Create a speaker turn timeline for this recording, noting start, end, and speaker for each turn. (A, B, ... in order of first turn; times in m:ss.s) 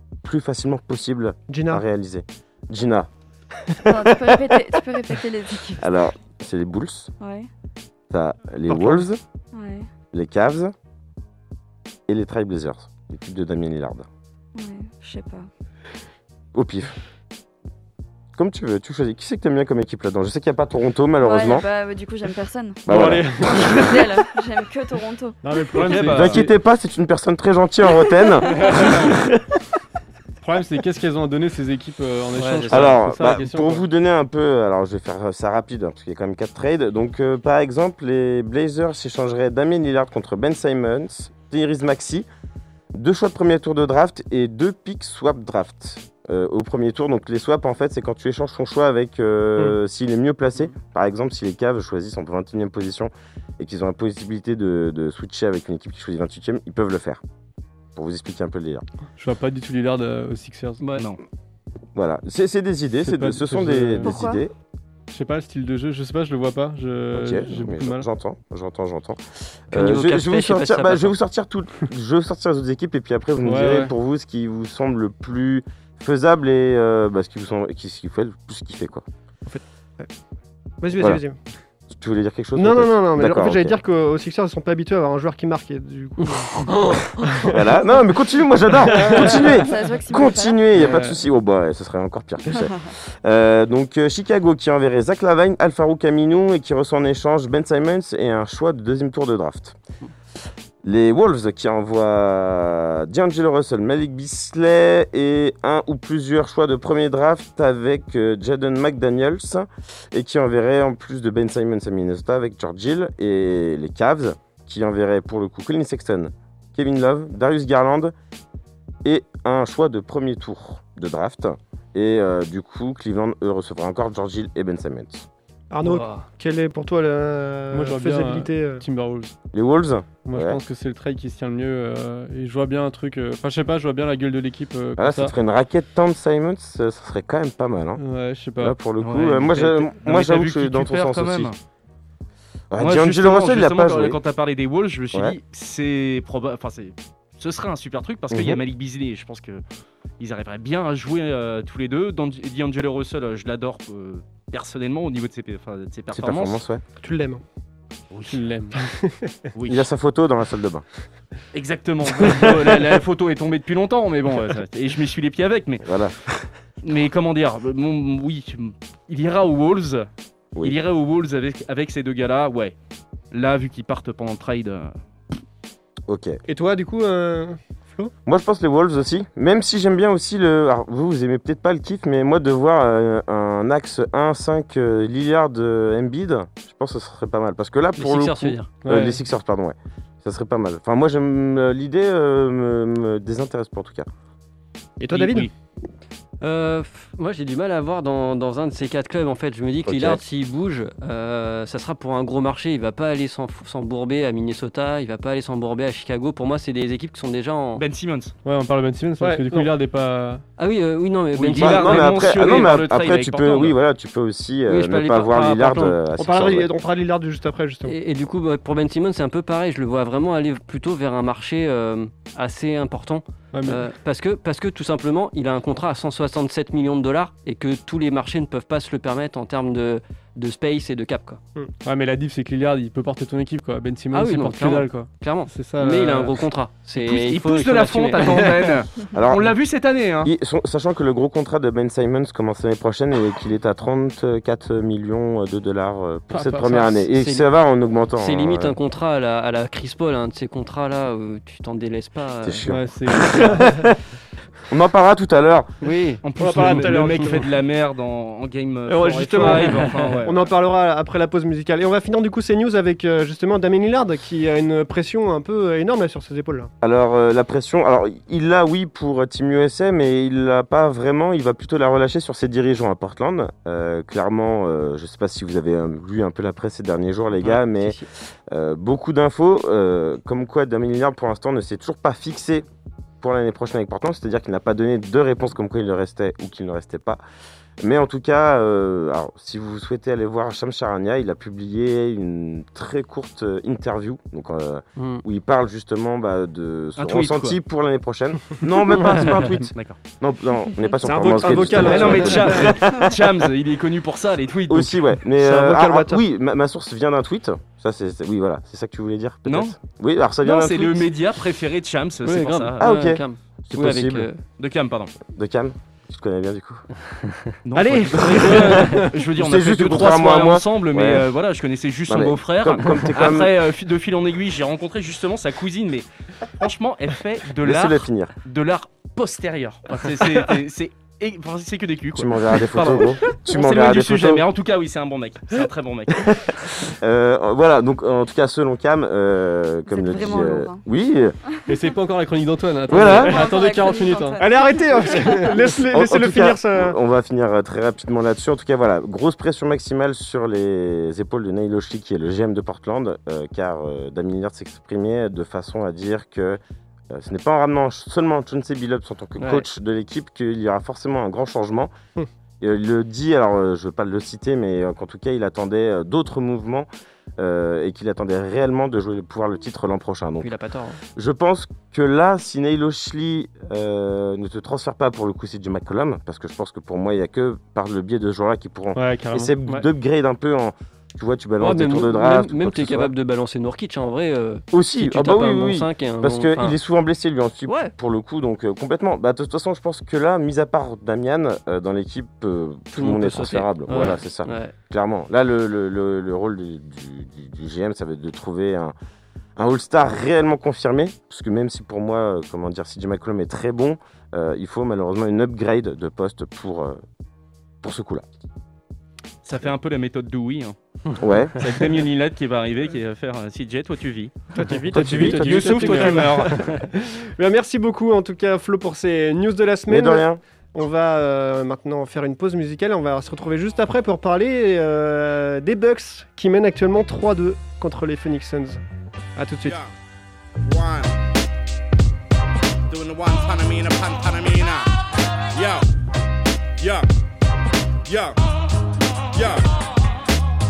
0:00.2-0:07.1 A
0:01.5-0:01.8 B
0:03.8-0:05.8 C
0:07.2-0:07.5 C
0:08.1-0:09.2 A
0:08.7-0:09.0 B
0:09.5-0:09.9 C
0:10.1-0:10.7 A
0:12.1-0:14.1 A
0:14.6-0:15.5 C
0:16.5-0:17.0 A
0:18.4-0:21.7 A
0:21.2-0:22.9 C
0:22.9-0:23.9 A
0:22.9-0:24.0 D
0:23.4-0:23.9 B
0:23.7-0:25.4 C
0:25.4-0:26.5 D
0:25.8-0:26.5 E
0:26.0-0:29.3 A
0:28.6-0:29.0 D
0:30.4-0:33.8 D
0:32.4-0:33.5 E
0:32.7-0:42.3 A
0:42.9-0:57.2 A
0:58.0-0:58.8 A
0:59.2-1:00.8 D
1:00.8-1:01.1 E
1:02.0-1:04.5 A
1:03.0-1:04.2 D
1:04.0-1:04.4 C
1:05.1-1:08.0 D
1:07.1-1:19.0 A
1:09.7-1:11.1 E
1:13.4-1:13.9 D
1:19.5-1:20.1 B
1:20.8-1:21.4 B
1:21.0-1:21.2 A
1:21.9-1:23.8 A
1:22.6-1:27.6 B
1:27.4-1:39.8 A
1:28.9-1:29.8 B
1:29.6-1:30.7 C
1:30.8-1:31.2 D
1:32.5-1:32.9 C
1:40.8-1:58.1 A
1:59.0-2:05.3 A
2:05.7-2:08.8 B
2:05.8-2:06.2 D
2:07.7-2:09.3 D
2:09.5-2:10.6 A
2:10.3-2:15.3 D
2:15.0-2:18.0 A
2:18.0-2:18.8 D
2:18.6-2:21.5 A
2:19.0-2:21.6 F
2:22.7-2:24.2 A
2:22.8-2:29.6 F
2:28.3-2:28.6 A
2:30.2-2:36.6 F
2:36.1-2:36.8 A
2:37.0-2:37.4 B
2:38.1-2:38.4 F
2:38.3-2:38.9 D
2:39.6-2:39.9 F
2:39.7-2:40.8 A
2:41.5-2:45.9 F
2:45.8-2:46.5 A
2:46.8-2:50.1 F
2:50.6-2:52.8 F
2:53.3-2:54.9 F
2:56.1-2:56.4 A
2:56.5-2:58.1 B
2:58.3-3:14.1 A
3:08.0-3:08.7 E
3:08.8-3:09.2 D
3:15.0-3:15.5 B
3:15.1-3:15.5 F
3:16.4-3:27.8 E
3:19.9-3:20.2 A
3:27.8-3:28.3 F
3:28.4-3:30.4 D
3:29.2-3:29.7 B
3:30.6-3:32.3 E
3:31.4-3:33.8 F
3:31.6-3:36.7 A
3:34.7-3:36.0 E
3:36.2-3:38.0 B
3:37.9-3:51.4 E
3:43.5-3:43.9 D
3:51.8-3:56.4 D
3:54.1-3:58.6 E
3:57.0-4:00.3 F
3:59.1-3:59.6 A
4:00.2-4:08.8 A
4:06.3-4:06.9 D
4:07.1-4:07.5 E
4:08.2-4:13.5 E
4:12.4-4:13.9 A
4:12.7-4:13.8 D
4:14.7-4:15.7 A
4:15.8-4:16.2 E
4:16.2-4:20.4 F
4:16.4-4:17.5 B
4:16.4-4:17.3 D
4:18.9-4:26.7 B
4:26.8-4:38.0 A
4:37.4-4:38.1 E
4:38.5-4:42.7 A
4:43.2-4:47.2 A
4:47.8-5:03.5 A
4:55.0-4:55.2 E
4:57.0-4:57.6 F
5:01.0-5:02.8 B
5:01.4-5:05.0 F
5:04.7-5:11.1 A
5:05.4-5:06.2 B
5:09.5-5:09.8 F
5:10.4-5:12.8 F
5:12.2-5:14.4 E
5:12.8-5:14.3 A
5:14.6-5:15.1 F
5:15.3-5:16.8 A
5:17.7-5:26.1 F
5:18.2-5:18.6 B
5:18.3-5:21.3 A
5:22.1-5:23.5 A
5:26.6-5:36.4 F
5:27.6-5:28.3 A
5:32.1-5:34.4 A
5:36.3-5:41.4 A
5:39.9-5:40.8 C
5:41.7-5:44.4 D
5:42.9-5:43.5 A
5:43.0-5:45.6 C
5:44.4-5:47.0 B
5:45.9-5:56.6 A
5:57.1-6:01.9 A
6:02.6-6:10.6 A
6:10.4-6:11.0 E
6:11.2-6:23.1 A
6:19.0-6:19.8 D
6:21.6-6:26.8 E
6:24.7-6:38.9 A
6:27.7-6:27.9 E
6:33.0-6:34.7 E
6:39.6-6:47.0 A
6:47.8-6:48.2 A
6:49.4-6:50.8 F
6:51.2-6:51.6 A
6:51.6-6:54.3 F
6:54.8-6:56.6 D
6:54.9-6:55.8 A
6:55.0-6:56.9 F
6:55.5-7:08.8 B
6:59.9-7:00.4 A
7:09.4-7:09.8 B
7:09.6-7:09.9 G
7:10.6-7:11.2 G
7:12.9-7:14.9 G
7:15.5-7:15.9 G
7:16.8-7:17.1 G
7:18.1-7:18.4 G
7:19.3-7:19.7 G